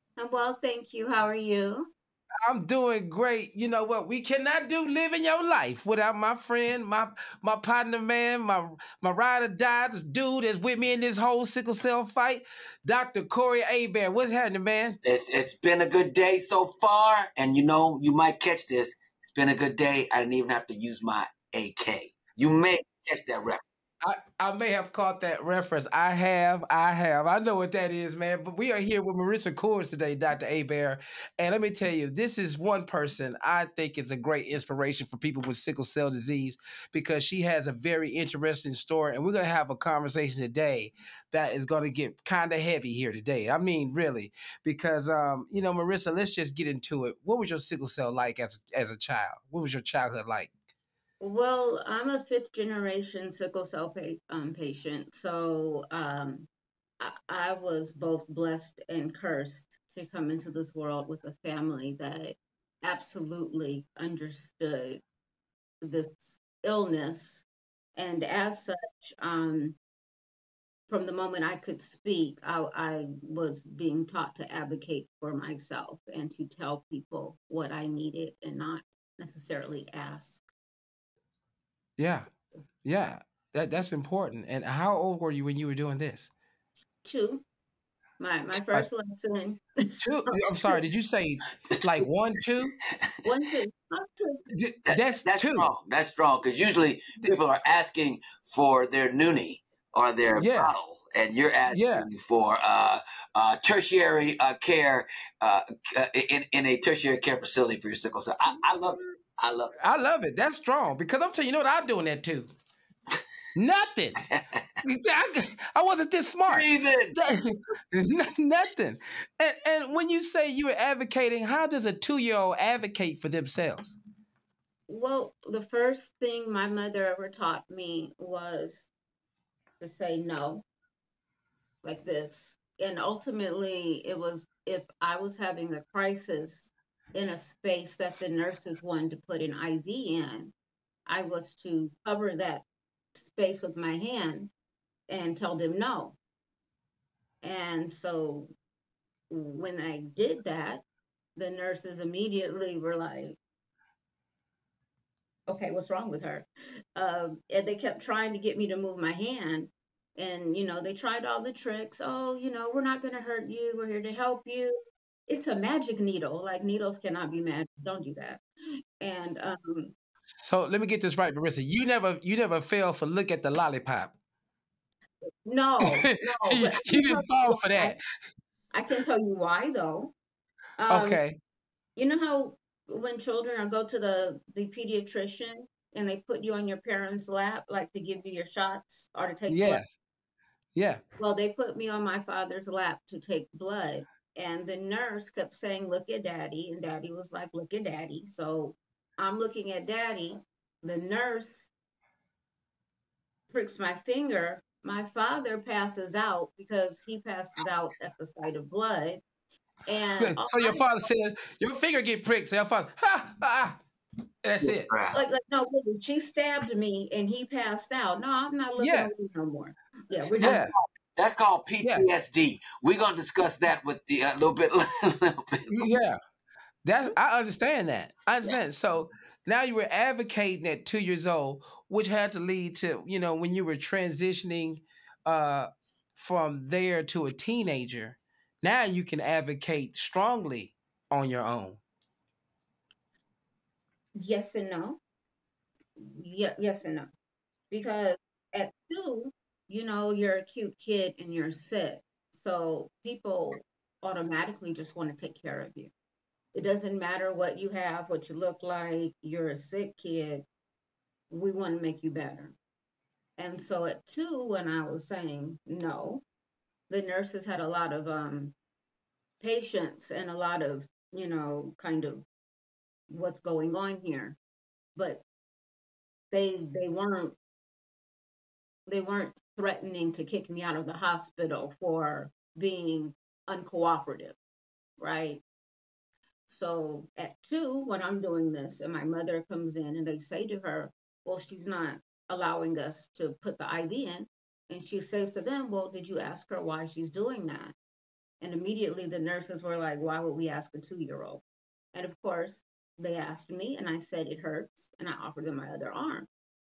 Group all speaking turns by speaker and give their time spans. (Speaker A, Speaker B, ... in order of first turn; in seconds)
Speaker A: 0.2-1.9, 51.2-56.5, 57.0-65.0, 65.8-69.8, 70.9-80.4, 87.0-87.4, 88.2-90.8, 93.2-94.5, 124.9-128.9, 129.8-130.6, 131.8-140.5, 141.1-142.6, 143.2-144.5, 145.1-146.2, 147.4-148.5, 149.3-150.8, 151.3-153.4, 155.5-168.4, 169.0-169.9, 175.4-178.0, 178.7-180.1, 180.8-181.2, 181.9-189.8, 191.2-201.7, 203.5-209.2, 209.8-211.0, 215.1-220.6, 244.2-245.0, 246.0-247.1, 247.7-255.9, 256.5-260.5, 261.3-262.6, 263.4-266.2, 266.9-268.5, 269.4-272.2, 273.1-274.4, 274.9-275.2, 276.3-277.4, 278.9-284.4, 285.0-285.4, 286.5-297.7, 298.4-306.3
Speaker B: 2.5-15.0, 24.0-50.5, 82.0-82.3, 82.8-86.3, 90.0-92.7, 94.5-95.7, 100.3-100.7, 101.7-102.1, 109.8-112.5, 113.5-114.2, 114.8-124.0, 170.4-174.1, 175.8-178.0, 180.9-181.4, 189.5-189.9, 190.7-191.0, 210.2-213.8, 214.4-214.9, 218.8-219.1, 220.4-220.7, 221.8-222.1, 225.7-226.2, 226.8-241.8
Speaker C: 15.0-23.6, 94.9-109.7, 116.5-117.2, 214.6-215.2, 220.4-225.9